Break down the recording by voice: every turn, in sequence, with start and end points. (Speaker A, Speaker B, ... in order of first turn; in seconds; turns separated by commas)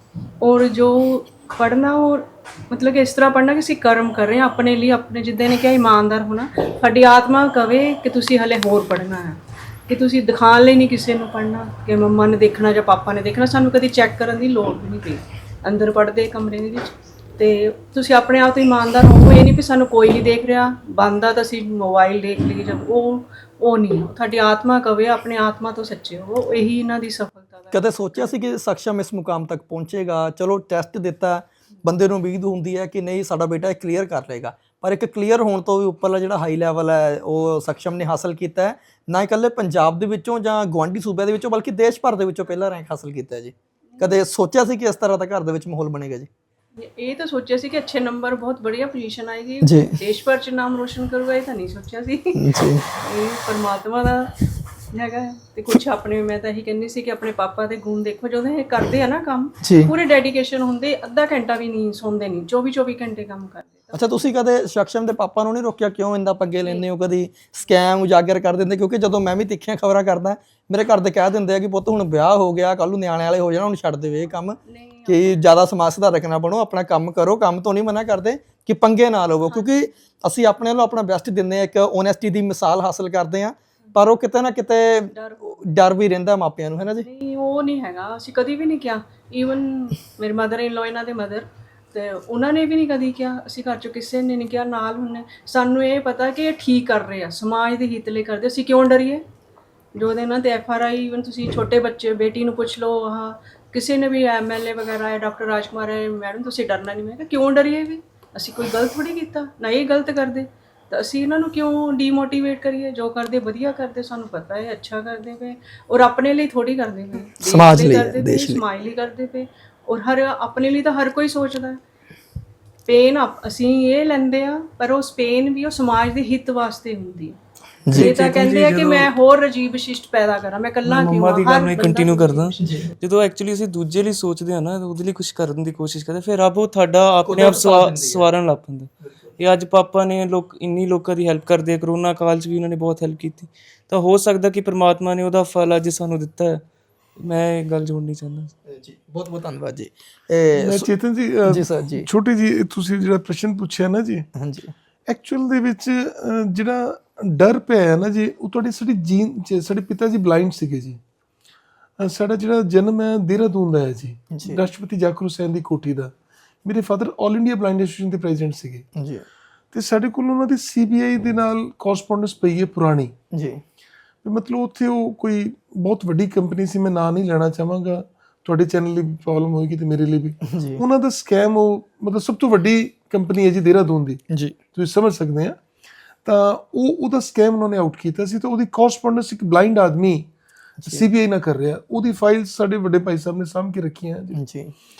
Speaker A: 0.4-28.3, Speaker B: 27.7-46.3, Speaker A: 44.0-44.2, Speaker A: 46.8-64.2, Speaker B: 49.6-50.0, Speaker B: 52.4-52.8, Speaker B: 59.6-59.9, Speaker B: 63.9-87.0, Speaker A: 74.7-75.5, Speaker A: 79.5-79.9, Speaker A: 85.1-85.6, Speaker A: 87.0-99.2, Speaker A: 100.0-121.8, Speaker B: 117.4-118.6, Speaker A: 122.9-127.4, Speaker C: 127.9-129.1, Speaker A: 127.9-132.8, Speaker C: 130.8-146.6, Speaker B: 137.2-138.2, Speaker C: 147.2-148.5, Speaker B: 148.7-150.9, Speaker D: 150.5-154.3, Speaker B: 151.5-152.1, Speaker B: 154.4-154.7, Speaker D: 155.1-161.0, Speaker D: 162.0-168.9, Speaker B: 164.3-164.6, Speaker B: 169.0-169.2, Speaker D: 169.7-173.1, Speaker B: 173.3-173.6, Speaker D: 174.2-184.2, Speaker B: 180.5-180.8, Speaker D: 184.7-185.6, Speaker D: 186.2-190.3, Speaker B: 190.8-191.0, Speaker D: 190.9-194.4, Speaker B: 194.3-194.7